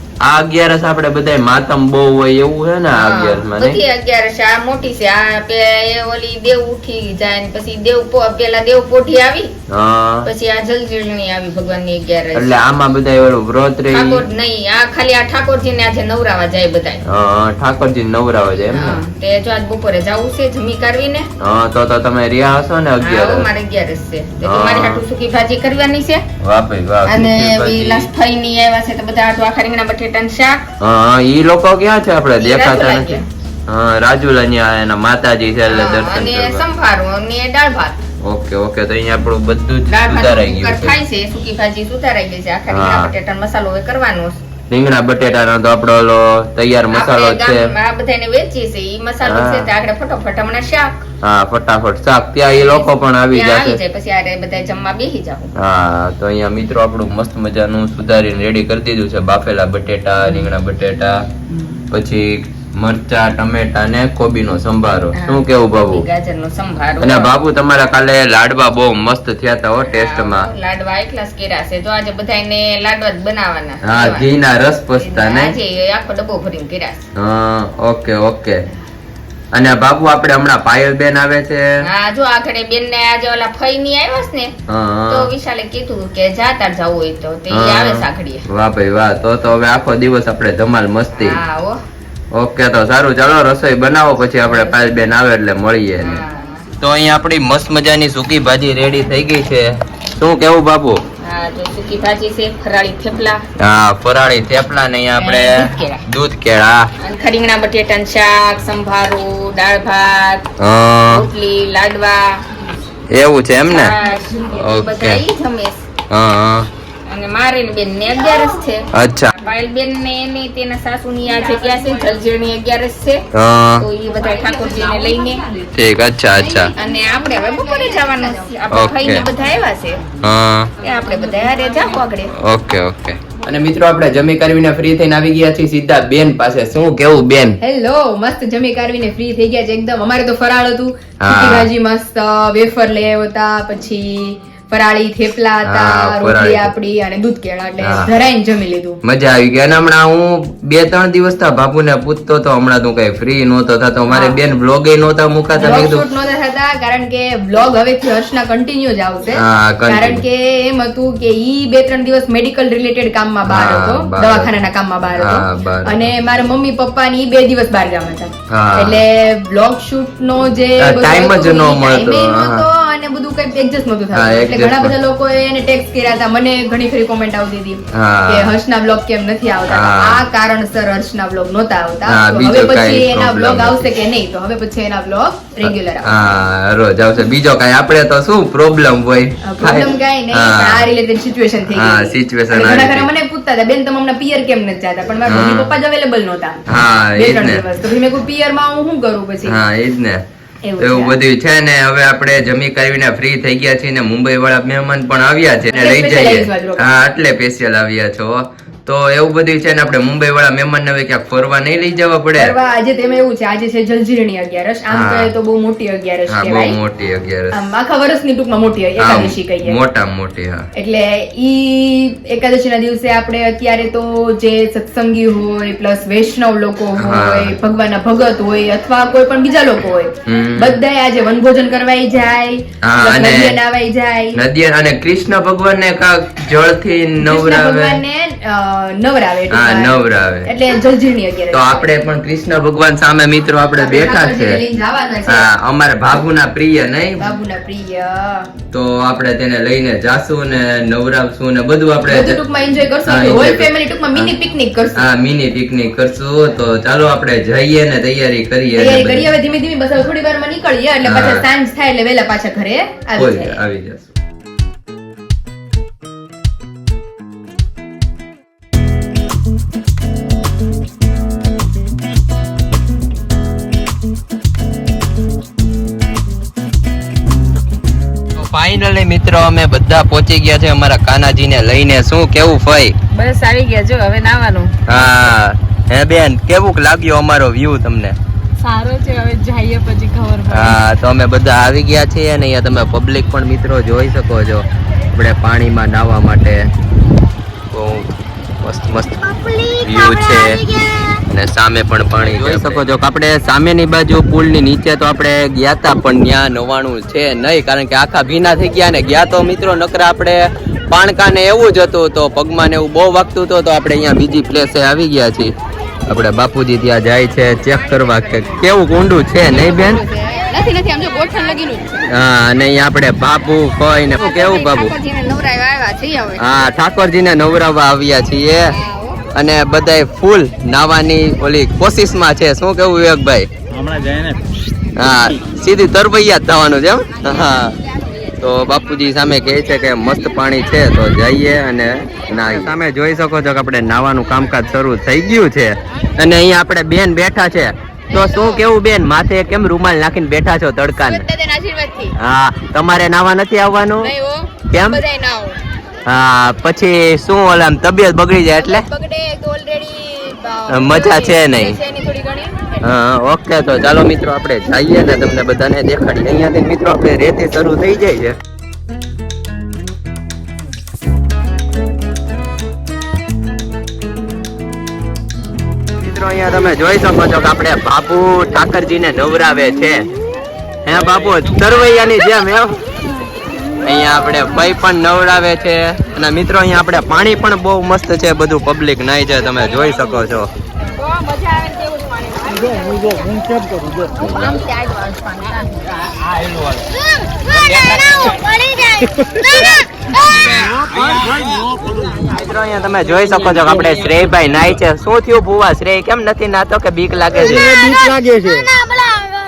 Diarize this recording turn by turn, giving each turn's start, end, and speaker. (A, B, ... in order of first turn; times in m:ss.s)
0:00.2-0:03.8 A
0:02.9-0:09.5 B
0:09.7-0:10.3 A
0:10.2-0:12.6 B
0:12.4-0:14.2 A
0:13.9-0:17.0 B
0:17.1-0:19.0 A
0:18.7-0:21.3 B
0:21.4-0:23.5 A
0:23.0-0:26.2 B
0:24.4-0:25.0 A
0:26.4-0:28.1 A
0:27.1-0:30.6 B
0:30.8-0:36.6 A
0:32.4-0:33.2 B
0:35.7-0:38.0 B
0:38.2-0:41.0 A
0:39.9-0:44.4 B
0:42.7-0:43.1 A
0:44.7-0:47.7 A
0:46.9-0:51.0 B
0:49.2-0:49.7 A
0:51.2-0:53.8 A
0:52.5-0:55.5 B
0:55.6-1:01.2 A
1:01.9-1:06.1 A
1:05.2-1:07.3 B
1:07.0-1:10.5 A
1:09.8-1:14.3 B
1:13.8-1:15.6 A
1:15.0-1:17.0 B
1:17.2-1:18.6 A
1:19.5-1:21.6 A
1:21.9-1:24.5 B
1:24.7-1:25.3 A
1:25.1-1:28.4 B
1:27.5-1:31.4 A
1:31.2-1:31.8 B
1:32.3-1:36.2 A
1:36.0-1:36.7 B
1:36.8-1:41.0 A
1:41.2-1:43.4 B
1:43.6-1:46.9 A
1:45.2-1:46.0 B
1:47.0-1:50.5 B
1:50.6-1:51.3 A
1:51.1-1:52.4 B
1:53.1-1:54.0 A
1:53.7-1:55.8 B
1:54.6-1:55.2 A
1:56.1-1:56.7 A
1:57.1-1:58.9 B
1:59.0-1:59.3 A
1:59.4-2:03.2 B
2:03.3-2:03.9 A
2:03.8-2:05.4 B
2:05.7-2:06.7 A
2:06.4-2:06.7 C
2:06.8-2:10.0 B
2:07.4-2:08.2 C
2:08.7-2:09.3 A
2:10.2-2:10.7 A
2:10.8-2:12.3 B
2:12.4-2:17.6 A
2:17.6-2:29.0 C
2:21.2-2:21.7 A
2:25.6-2:26.7 A
2:27.8-2:28.1 A
2:29.0-2:36.0 A
2:34.1-2:34.4 C
2:35.6-3:06.1 C
2:39.3-2:40.2 A
2:43.5-2:44.5 A
2:45.2-2:46.1 A
2:48.5-2:49.0 A
2:50.8-2:52.7 A
2:54.1-2:55.0 A
2:58.0-2:58.6 A
2:59.7-3:00.2 A
3:02.1-3:03.9 A
3:05.6-3:10.9 A
3:09.4-3:16.6 C
3:11.7-3:13.1 A
3:15.3-3:15.7 A
3:16.7-3:17.6 A
3:17.2-3:19.6 C
3:19.4-3:20.2 A
3:20.6-3:21.2 C
3:20.8-3:32.6 A
3:25.7-3:26.9 C
3:32.4-3:36.8 C
3:34.9-3:35.3 A
3:36.3-3:37.7 A
3:37.5-3:39.8 C
3:39.0-3:40.6 A
3:40.8-3:54.4 C
3:47.0-3:47.6 A
3:50.3-3:50.8 A
3:52.8-3:53.6 A
3:54.4-3:58.0 A
3:57.2-4:01.9 C
3:59.5-4:00.5 A
4:01.5-4:04.6 A
4:03.8-4:05.5 C
4:05.3-4:07.2 A
4:07.2-4:08.5 C
4:08.7-4:12.4 A
4:12.1-4:15.0 C
4:13.1-4:14.3 A
4:15.0-4:19.3 A
4:18.8-4:23.6 C
4:21.0-4:21.5 A
4:23.2-4:24.1 A
4:38.4-4:43.0 A
4:43.1-4:45.3 B
4:44.9-4:48.2 A
4:48.6-4:50.8 B
4:50.5-4:56.7 A
4:57.7-4:58.1 A
4:58.6-5:00.7 A
4:59.5-5:00.8 B
5:01.3-5:15.5 A
5:16.1-5:20.0 A
5:17.7-5:18.6 C
5:19.5-5:22.1 C
5:19.6-5:20.0 B
5:22.1-5:24.9 A
5:24.1-5:26.6 B
5:26.4-5:28.8 A
5:28.7-5:29.3 B
5:29.3-5:33.5 A
5:33.7-5:34.4 D
5:35.0-5:37.8 A
5:38.4-5:51.2 A
5:48.1-5:48.7 C
5:51.0-5:52.2 C
5:52.2-5:54.1 A
5:54.0-5:55.6 C
5:54.7-5:55.0 A
5:56.1-5:58.9 A
5:58.6-6:02.9 C
6:00.7-6:01.8 A
6:02.8-6:08.4 A
6:16.0-6:20.1 A
6:20.8-6:22.8 A
6:23.8-6:30.5 A
6:29.7-6:30.1 B
6:30.8-6:36.4 B
6:32.9-6:33.5 D
6:36.3-6:36.8 D
6:37.5-6:40.6 B
6:37.6-6:38.4 D
6:40.3-6:41.3 A
6:42.2-6:47.8 A
6:47.6-6:48.2 D
6:47.8-6:48.1 B
6:48.8-6:49.1 B